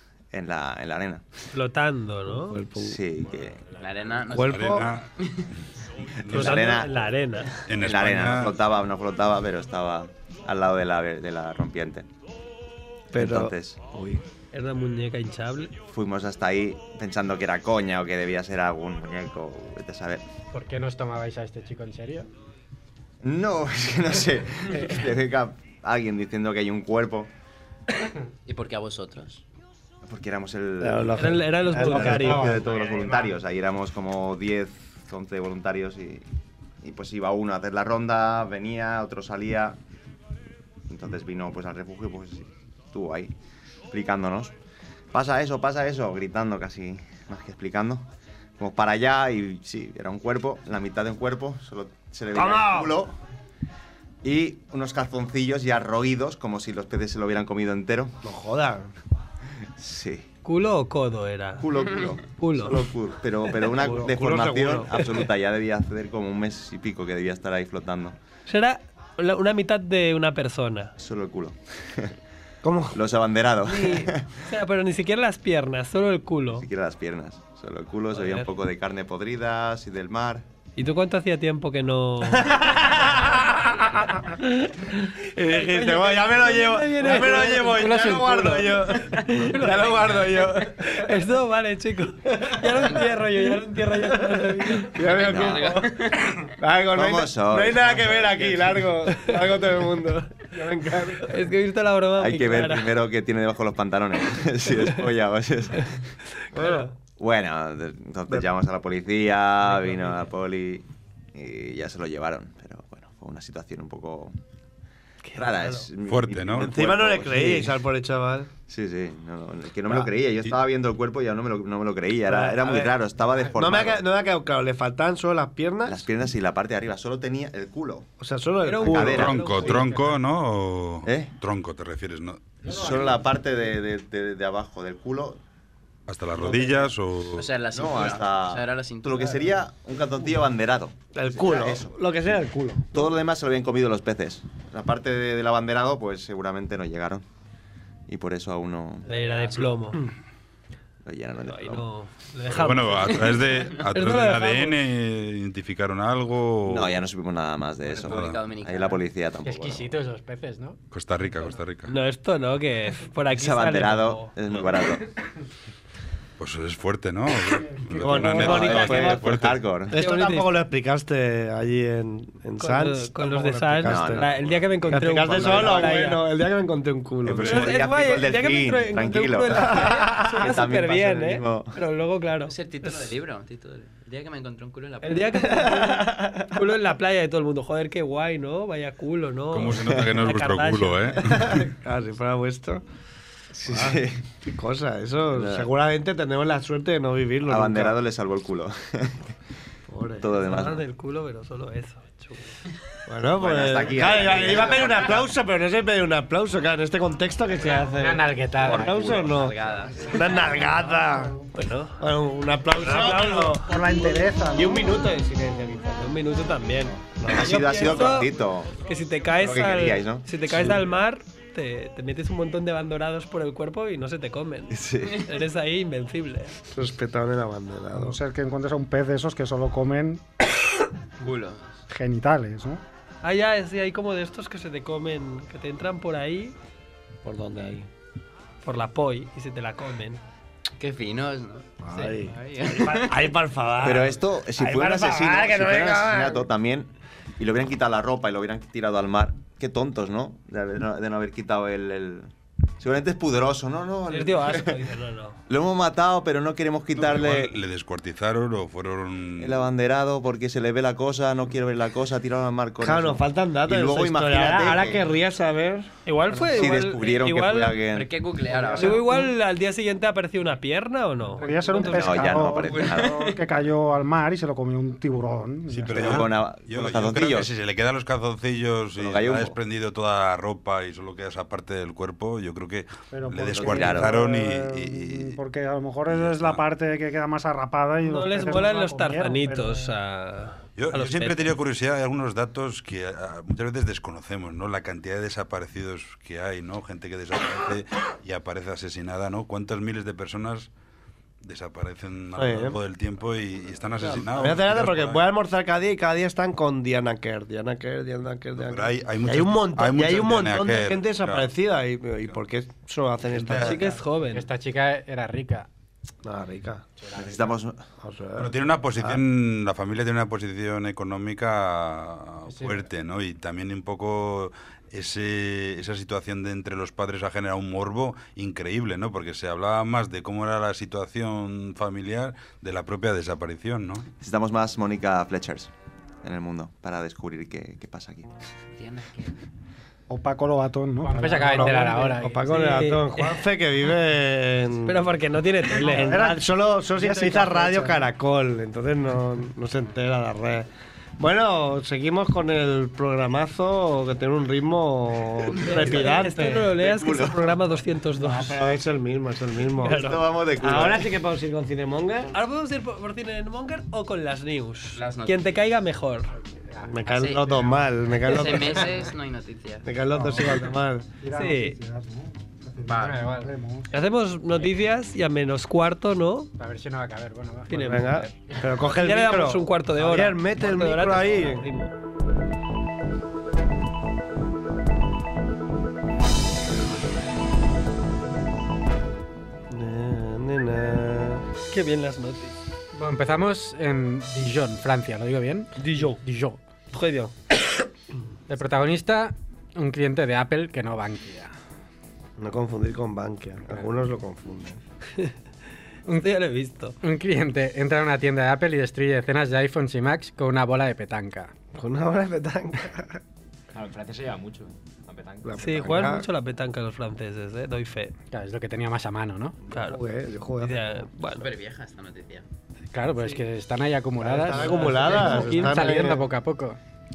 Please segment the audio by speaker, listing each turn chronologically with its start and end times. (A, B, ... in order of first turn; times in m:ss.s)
0:00.3-0:01.2 A
0:01.5-0:02.6 B
0:02.4-0:03.0 C
0:02.8-0:03.7 A
0:03.8-0:05.4 D
0:04.3-0:04.9 C
0:04.4-0:05.1 E
0:06.2-0:06.5 E
0:06.2-0:06.9 A
0:06.3-0:07.6 B
0:07.6-0:08.6 E
0:07.7-0:12.1 A
0:13.1-0:14.2 C
0:13.1-0:13.8 A
0:14.5-0:15.7 B
0:15.9-0:20.2 A
0:20.5-0:22.3 F
0:23.2-0:27.3 A
0:28.5-0:29.4 D
0:30.0-0:36.2 A
0:30.8-0:32.8 C
0:31.2-0:32.6 B
0:36.8-0:39.8 A
0:40.9-0:43.3 A
0:43.9-0:44.5 A
0:45.1-0:48.1 A
0:48.6-0:53.1 A
0:52.3-0:53.0 C
0:54.2-0:58.2 A
0:58.2-0:58.9 C
0:59.8-1:00.3 A
1:00.4-1:01.7 B
1:01.6-1:08.2 A
1:02.4-1:02.8 B
1:03.6-1:05.0 C
1:08.5-1:10.9 B
1:11.0-1:12.1 A
1:12.6-1:13.0 C
1:12.9-1:14.3 A
1:13.7-1:16.7 B
1:16.5-1:20.4 A
1:18.1-1:18.5 B
1:20.8-1:23.2 B
1:22.3-1:24.1 C
1:24.3-1:35.1 B
1:25.2-1:30.9 C
1:27.1-1:28.8 F
1:32.5-1:32.9 C
1:34.3-1:41.4 C
1:35.0-1:36.4 D
1:35.2-1:35.8 A
1:36.9-1:38.9 A
1:41.2-1:42.9 B
1:42.2-1:46.1 A
1:46.5-1:46.9 C
1:46.5-1:46.9 B
1:47.1-1:54.3 A
1:55.2-1:55.9 B
1:55.3-1:57.8 A
1:56.0-1:56.8 E
1:56.6-1:58.5 C
1:58.7-2:04.0 A
2:02.3-2:02.9 C
2:03.5-2:06.0 C
2:05.8-2:08.1 A
2:08.2-2:09.7 C
2:08.6-2:10.0 B
2:08.8-2:09.6 A
2:09.1-2:12.6 E
2:11.0-2:11.3 A
2:12.6-2:15.4 A
2:16.1-2:17.5 E
2:17.3-2:19.4 D
2:17.7-2:21.9 A
2:21.1-2:23.0 C
2:22.9-2:27.2 A
2:28.1-2:29.1 A
2:29.0-2:30.0 B
2:29.1-2:29.8 D
2:31.0-2:31.9 A
2:31.5-2:34.8 B
2:32.5-2:37.0 E
2:36.6-2:39.9 A
2:38.0-2:38.4 E
2:38.0-2:39.0 D
2:39.4-2:40.8 F
2:40.9-2:41.9 E
2:41.9-2:44.3 B
2:43.3-2:45.0 A
2:46.4-2:49.7 E
2:48.0-2:49.3 C
2:48.2-2:49.9 A
2:48.3-2:49.2 B
2:49.9-2:50.5 B
2:49.9-2:54.3 C
2:52.6-2:56.2 B
2:53.8-2:56.1 A
2:54.9-2:57.7 C
2:57.2-3:01.8 A
2:57.3-3:03.1 B
2:59.7-3:00.5 C
3:02.4-3:05.6 D
3:05.0-3:11.5 B
3:05.6-3:06.5 C
3:09.5-3:11.6 E
3:11.2-3:12.8 C
3:13.6-3:14.2 A
3:13.6-3:18.0 C
3:15.3-3:15.7 A
3:17.4-3:19.3 A
3:19.9-3:20.3 C
3:20.2-3:20.8 A
3:20.4-3:22.6 B
3:23.1-3:31.4 C
3:23.3-3:25.2 A
3:27.9-3:29.1 F
3:28.8-3:29.3 A
3:29.0-3:30.1 D
3:30.9-3:31.3 G
3:31.5-3:32.0 B
3:32.0-3:38.2 C
3:32.7-3:33.6 B
3:33.0-3:35.1 G
3:36.0-3:46.6 B
3:37.3-3:38.8 A
3:39.3-3:40.8 A
3:40.5-3:40.8 C
3:44.7-3:45.2 A
3:46.7-3:48.2 C
3:47.9-3:50.2 G
3:51.2-3:51.8 D
3:51.9-3:52.8 G
3:53.2-3:56.5 B
3:57.2-3:57.9 C
3:58.6-4:00.2 B
4:00.8-4:03.3 D
4:01.8-4:06.5 C
4:03.8-4:14.8 A
4:14.1-4:15.4 B
4:15.5-4:17.5 A
4:17.0-4:19.7 E
4:19.4-4:25.0 A
4:22.8-4:25.9 C
4:26.0-4:27.8 B
4:26.4-4:28.2 A
4:27.9-4:29.1 D
4:28.4-4:28.8 H
4:28.7-4:32.5 B
4:31.4-4:36.2 G
4:31.8-4:33.2 A
4:32.8-4:33.3 D
4:35.7-4:45.4 E
4:35.9-4:37.5 A
4:38.9-4:39.6 A
4:43.1-4:50.0 G
4:43.5-4:44.2 A
4:46.1-4:46.6 E
4:48.0-4:51.5 B
4:50.8-5:00.7 E
5:01.4-5:05.2 E
5:02.4-5:02.8 C
5:04.0-5:13.9 C
5:08.6-5:11.5 E
5:13.3-5:13.9 E
5:13.6-5:14.5 B
5:14.3-5:15.7 F
5:16.2-5:16.8 C
5:17.0-5:17.5 F
5:17.1-5:17.8 A
5:18.0-5:19.2 C
5:18.4-5:34.0 E
5:22.5-5:22.8 F
5:34.2-5:35.7 A
5:36.2-5:38.3 A
5:38.7-5:39.4 D
5:40.1-5:41.9 G
5:41.0-5:42.4 F
5:41.3-5:45.1 C
5:42.4-5:43.4 B
5:44.8-5:46.3 B
5:45.7-5:56.7 C
5:45.7-5:48.0 G
5:55.6-5:58.6 B
5:56.7-5:57.6 A
5:58.2-6:02.3 C
5:59.8-6:01.1 A
5:59.8-6:00.2 B
6:02.3-6:06.3 B
6:04.9-6:05.5 D
6:06.7-6:07.0 F
6:06.8-6:08.9 C
6:07.0-6:09.9 D
6:09.8-6:11.1 C
6:10.1-6:10.5 G
6:11.2-6:13.9 G
6:11.3-6:11.8 B
6:12.9-6:13.2 D
6:12.9-6:13.5 F
6:13.9-6:16.5 B
6:16.6-6:18.7 F
6:17.7-6:18.2 B
6:17.7-6:21.7 C
6:18.8-6:21.9 B
6:29.7-6:31.4 C
6:31.7-6:32.6 B
6:32.9-6:36.6 F
6:35.8-6:36.2 B
6:36.9-6:37.3 B
6:38.5-6:41.5 F
6:42.4-6:44.8 C
6:46.1-6:47.0 B
6:47.0-6:51.5 F
6:51.7-6:53.2 C
6:53.7-6:55.9 H
6:55.4-6:56.3 C
6:55.6-6:58.1 B
6:58.3-6:59.6 F
6:59.7-7:01.0 C
6:59.7-7:00.0 B
7:00.6-7:01.5 B
7:01.3-7:02.4 D
7:02.9-7:06.8 F
7:04.2-7:06.2 C
7:04.4-7:06.0 B